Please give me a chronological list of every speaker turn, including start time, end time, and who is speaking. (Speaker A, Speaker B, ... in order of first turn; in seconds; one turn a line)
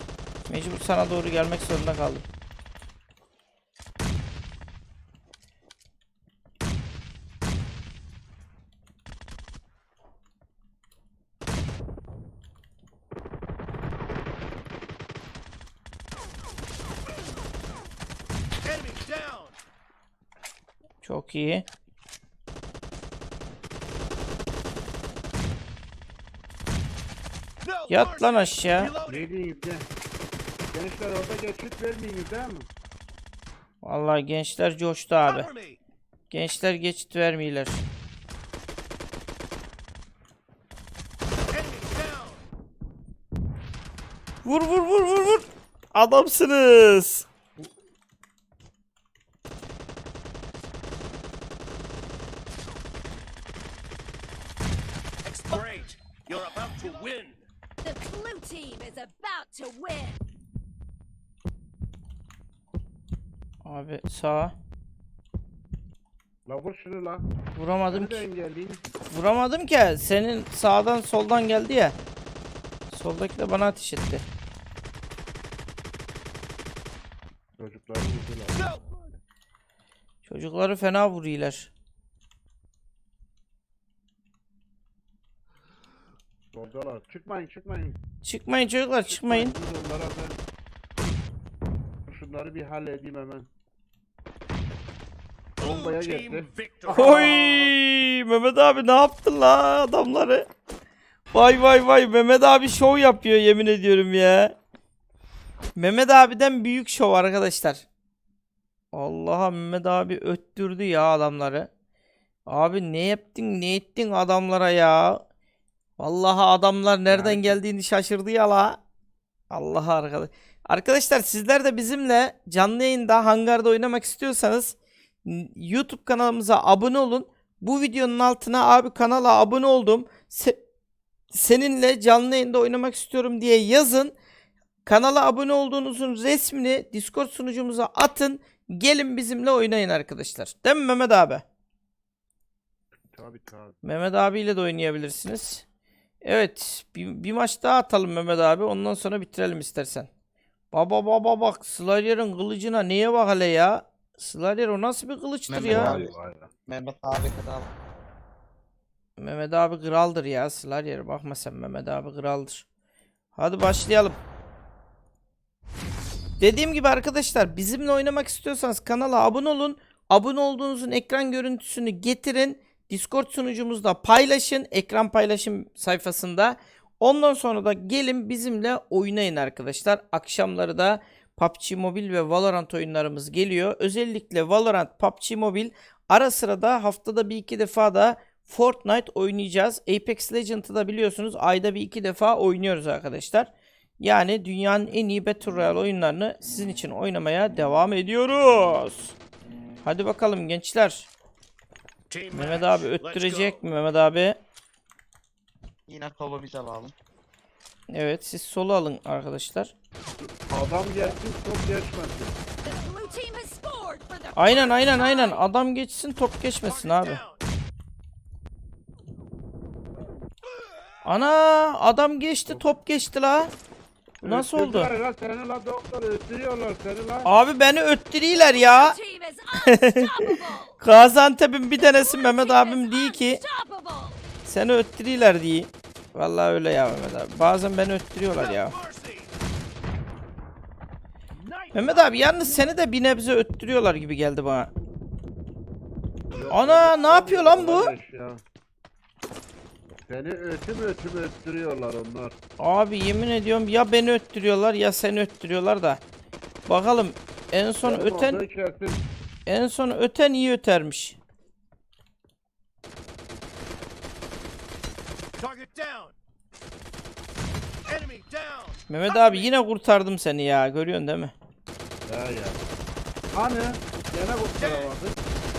Speaker A: 0.5-2.3
Speaker B: 18.6-19.5
Speaker A: 21.0-21.7
Speaker B: 27.6-29.2
Speaker A: 27.9-28.9
Speaker C: 29.0-29.9
Speaker C: 30.7-32.7
Speaker A: 33.8-35.5
Speaker B: 35.2-35.8
Speaker A: 36.3-37.8
Speaker B: 41.5-42.4
Speaker A: 44.4-47.3
Speaker B: 55.2-57.4
Speaker D: 57.8-60.2
Speaker A: 63.6-64.5
Speaker C: 66.5-67.3
Speaker A: 67.5-68.2
Speaker C: 67.9-68.8
Speaker A: 69.1-72.0
Speaker A: 72.9-74.2
Speaker C: 77.6-79.2
Speaker A: 80.2-81.7
Speaker C: 86.5-88.0
Speaker A: 88.2-89.5
Speaker C: 89.1-90.4
Speaker C: 92.1-93.5
Speaker B: 95.6-97.3
Speaker C: 95.6-97.7
Speaker A: 96.9-100.5
Speaker A: 101.3-104.6
Speaker A: 105.8-107.9
Speaker A: 108.9-111.7
Speaker A: 112.5-115.2
Speaker A: 116.0-118.8
Speaker C: 117.1-117.6
Speaker A: 119.5-130.6
Speaker A: 131.3-134.2
Speaker A: 134.8-141.4
Speaker C: 143.0-143.8
Speaker A: 143.8-145.7
Speaker A: 146.2-150.1
Speaker A: 150.7-156.0
Speaker E: 155.5-156.1
Speaker C: 155.6-156.5
Speaker E: 156.7-157.7
Speaker A: 159.2-162.7
Speaker A: 163.3-164.2
Speaker A: 166.4-199.2
Speaker A: 199.8-201.1
Speaker B: 202.1-203.6
Speaker A: 202.3-204.4
Speaker E: 205.9-206.9
Speaker A: 207.9-209.7
Speaker C: 210.5-212.4
Speaker D: 212.6-215.4
Speaker A: 214.4-217.2
Speaker B: 216.7-217.4
Speaker A: 221.1-223.5
Speaker A: 224.2-224.9
Speaker C: 224.2-227.3
Speaker A: 227.2-229.0
Speaker D: 228.4-230.8
Speaker A: 229.7-230.0
Speaker A: 230.8-233.4
Speaker D: 231.8-234.2
Speaker A: 234.4-238.8
Speaker B: 238.4-239.3
Speaker B: 241.3-242.3
Speaker A: 241.7-244.7
Speaker C: 246.3-248.4
Speaker A: 246.5-247.9
Speaker C: 250.1-252.4
Speaker A: 252.6-256.0
Speaker A: 256.7-258.4
Speaker C: 257.8-259.1
Speaker A: 259.5-261.2
Speaker B: 265.4-266.1
Speaker B: 267.9-269.5
Speaker A: 268.9-271.3
Speaker C: 272.1-272.6
Speaker C: 273.3-275.2
Speaker B: 274.6-274.9